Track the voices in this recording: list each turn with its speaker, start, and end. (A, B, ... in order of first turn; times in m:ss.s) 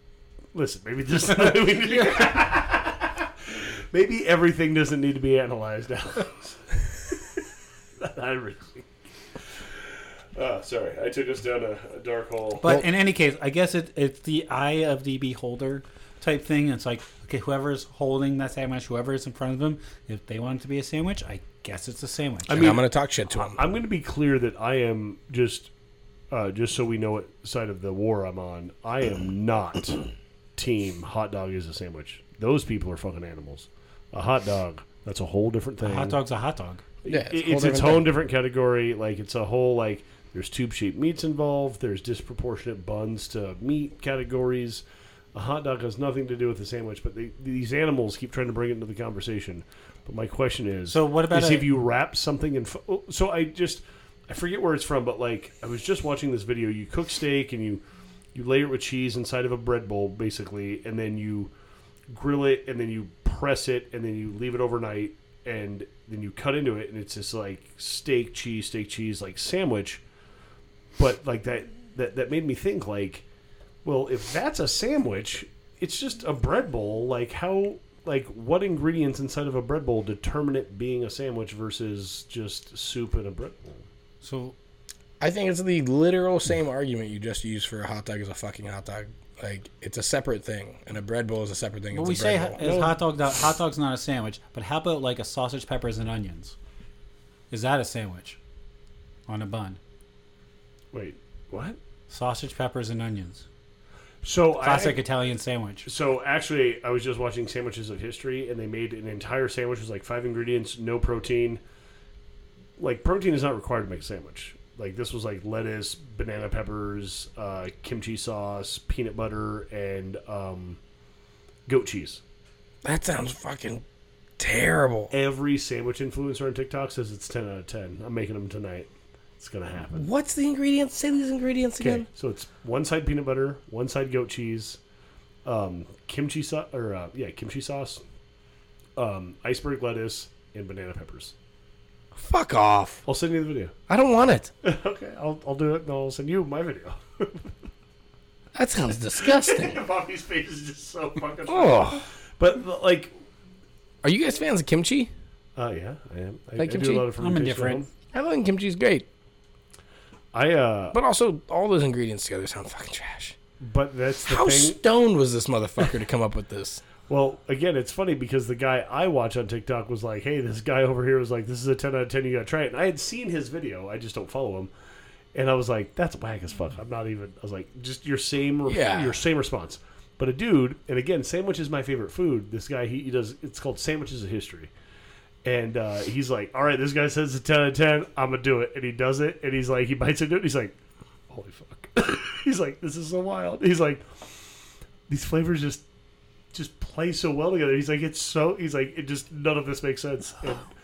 0:00.5-0:07.4 A
0:08.0-0:08.9 A
0:10.3-0:12.6 A
0:12.6-0:22.7 B
0:22.5-0:25.7 A
0:22.5-0:23.6 C
0:26.3-0:36.2 A
0:35.8-0:36.8 B
0:37.0-0:44.8 A
0:37.1-0:38.1 C
0:45.3-0:57.8 A
0:50.9-0:51.7 B
0:58.3-1:01.5 A
1:02.1-1:10.0 A
1:11.0-1:13.2 A
1:13.8-1:23.9 A
1:24.2-1:24.5 B
1:25.2-1:32.6 C
1:31.9-1:36.5 B
1:32.6-1:33.0 A
1:37.5-1:38.4 B
1:39.3-1:39.8 B
1:40.9-1:41.8 A
1:42.1-1:43.4 B
1:44.2-1:45.0 A
1:44.6-1:45.9 B
1:45.8-1:51.6 A
1:52.8-2:00.8 A
2:01.7-2:02.2 A
2:02.8-2:03.8 C
2:04.4-2:05.1 C
2:05.1-2:10.1 A
2:09.9-2:12.1 C
2:11.8-2:14.8 A
2:15.4-2:18.0 A
2:19.0-2:21.3 A
2:22.1-2:23.0 C
2:23.0-2:23.7 A
2:23.9-2:24.5 C
2:24.6-2:27.5 A
2:28.5-2:29.8 C
2:29.1-2:33.1 A
2:31.5-2:32.0 C
2:34.0-2:35.1 C
2:35.6-2:37.9 A
2:36.6-2:37.1 C
2:37.2-2:37.8 B
2:38.1-2:39.1 C
2:40.3-2:41.0 A
2:40.9-2:43.4 C
2:43.6-2:44.8 A
2:44.3-2:46.8 C
2:47.0-2:54.7 A
2:55.3-3:04.7 A
2:58.7-2:59.2 C
3:05.4-3:10.8 A
3:11.3-3:14.4 A
3:15.1-3:15.8 A
3:16.5-3:20.7 A